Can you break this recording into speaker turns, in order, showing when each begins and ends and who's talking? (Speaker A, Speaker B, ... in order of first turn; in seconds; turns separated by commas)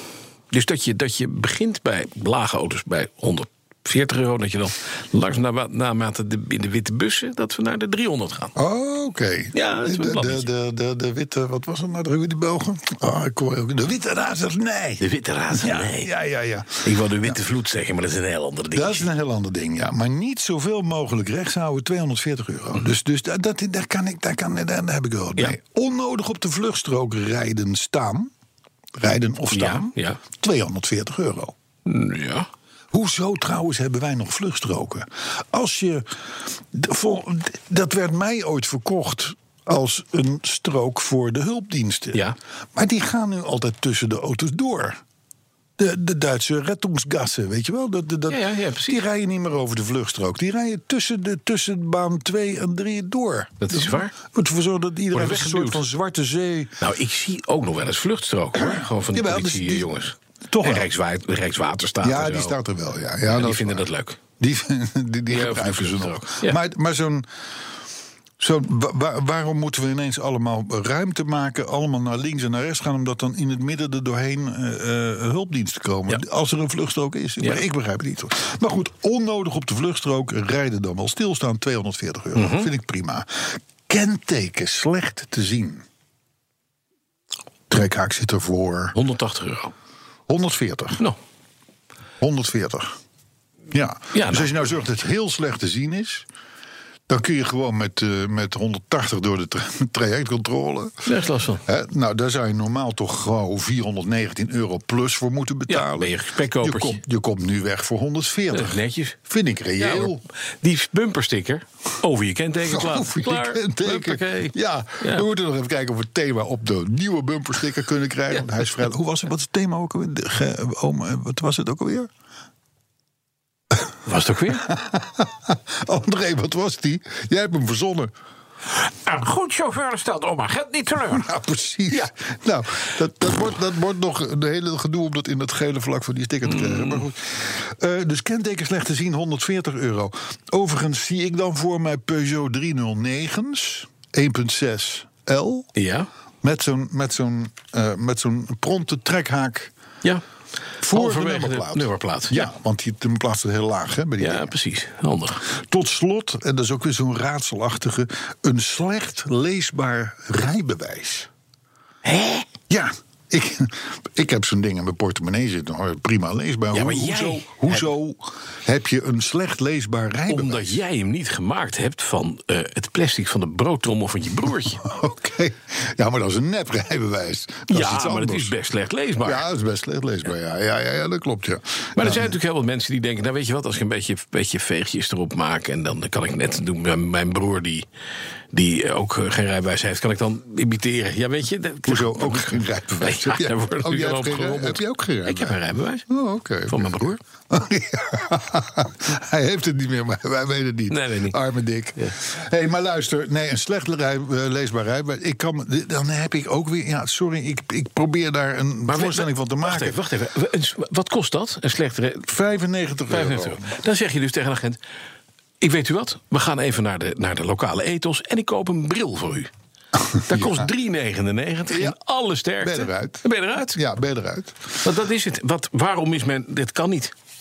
Speaker A: 0.5-8.5, Speaker B: 8.6-17.4, Speaker A: 9.5-10.5, Speaker A: 15.0-16.1, Speaker A: 16.8-19.1, Speaker B: 18.7-28.3, Speaker B: 28.9-31.5, Speaker A: 29.5-30.2, Speaker A: 31.9-32.5, Speaker B: 32.9-45.0, Speaker B: 45.8-56.7, Speaker A: 48.3-49.0, Speaker A: 53.6-54.1, Speaker A: 55.1-55.8, Speaker A: 56.8-62.6, Speaker B: 58.5-59.9, Speaker B: 60.5-60.9, Speaker B: 62.0-63.9, Speaker A: 63.3-64.2, Speaker B: 64.4-67.3, Speaker A: 65.3-66.6, Speaker B: 68.4-85.8, Speaker A: 82.3-82.7, Speaker B: 87.7-89.0, Speaker A: 88.9-89.7, Speaker B: 90.3-91.0, Speaker B: 92.2-92.9, Speaker B: 93.7-96.2, Speaker A: 94.1-94.5, Speaker B: 97.1-101.1, Speaker A: 101.0-101.6, Speaker B: 101.7-110.2, Speaker A: 105.7-107.0, Speaker A: 108.5-109.2, Speaker A: 109.8-115.2, Speaker B: 112.6-122.1, Speaker A: 124.0-124.7, Speaker B: 124.5-128.1, Speaker C: 129.1-131.2, Speaker B: 131.0-145.7, Speaker A: 136.4-137.1, Speaker A: 145.8-146.1, Speaker B: 146.4-149.7, Speaker B: 150.8-154.5, Speaker A: 150.9-152.5, Speaker A: 154.2-155.4, Speaker B: 155.4-161.3, Speaker A: 162.0-162.5, Speaker B: 162.7-170.8, Speaker A: 166.7-167.8, Speaker A: 170.3-174.8, Speaker B: 174.8-178.5, Speaker A: 177.7-179.4, Speaker B: 179.2-182.3, Speaker A: 181.9-187.8, Speaker A: 188.5-196.1, Speaker B: 191.8-210.0, Speaker A: 196.7-197.2, Speaker A: 200.9-201.4, Speaker A: 208.9-212.3, Speaker B: 212.2-213.7, Speaker A: 213.1-214.8, Speaker A: 215.6-219.5, Speaker B: 220.1-220.7, Speaker A: 220.2-223.8, Speaker B: 221.7-222.0, Speaker B: 222.6-224.6, Speaker A: 224.8-227.1